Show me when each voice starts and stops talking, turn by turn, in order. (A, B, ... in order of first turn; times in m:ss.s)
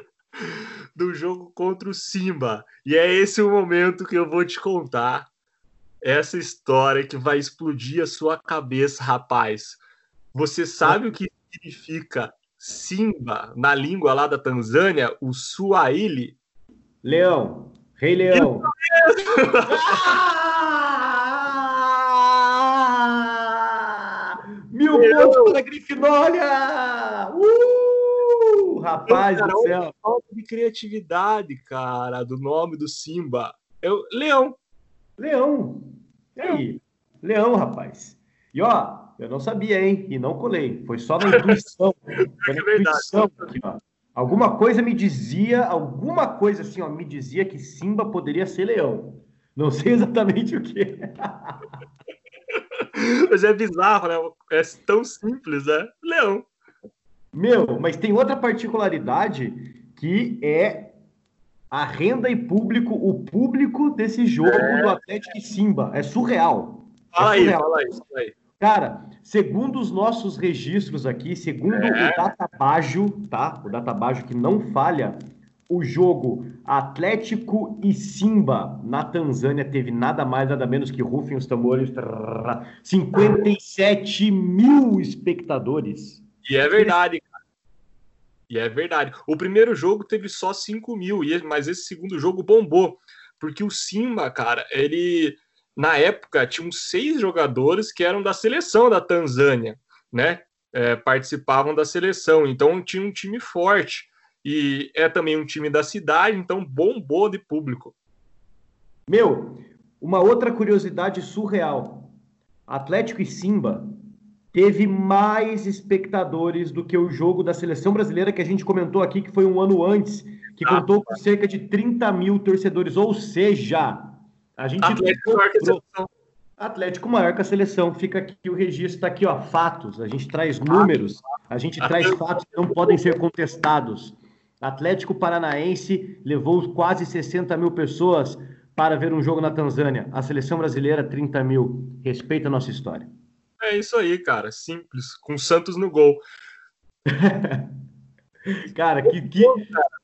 0:00.4-0:05.3 A
0:06.0-0:09.8 A
0:10.3-0:16.4 A
0:17.0-0:18.7 B
0:18.3-0:20.0 A
0:19.7-0:29.9 B
0:24.9-0:25.6 A
0:29.1-0:34.6 A
0:35.2-0:51.6 B
0:42.4-0:43.5 A
0:52.6-0:56.5 A
0:57.3-1:00.9 B
1:01.7-1:07.8 B
1:04.4-1:05.0 A
1:07.1-1:08.3 A
1:08.6-1:27.0 B
1:11.7-1:12.2 A
1:26.4-1:27.3 A
1:28.5-1:47.9 A
1:49.1-1:52.1 B
1:52.7-1:53.9 B
1:54.5-2:05.8 B
2:04.8-2:06.1 A
2:06.6-2:23.1 B
2:11.8-2:13.1 A
2:23.6-2:26.2 A
2:27.1-2:27.7 B
2:28.7-2:29.6 B
2:29.1-2:29.8 A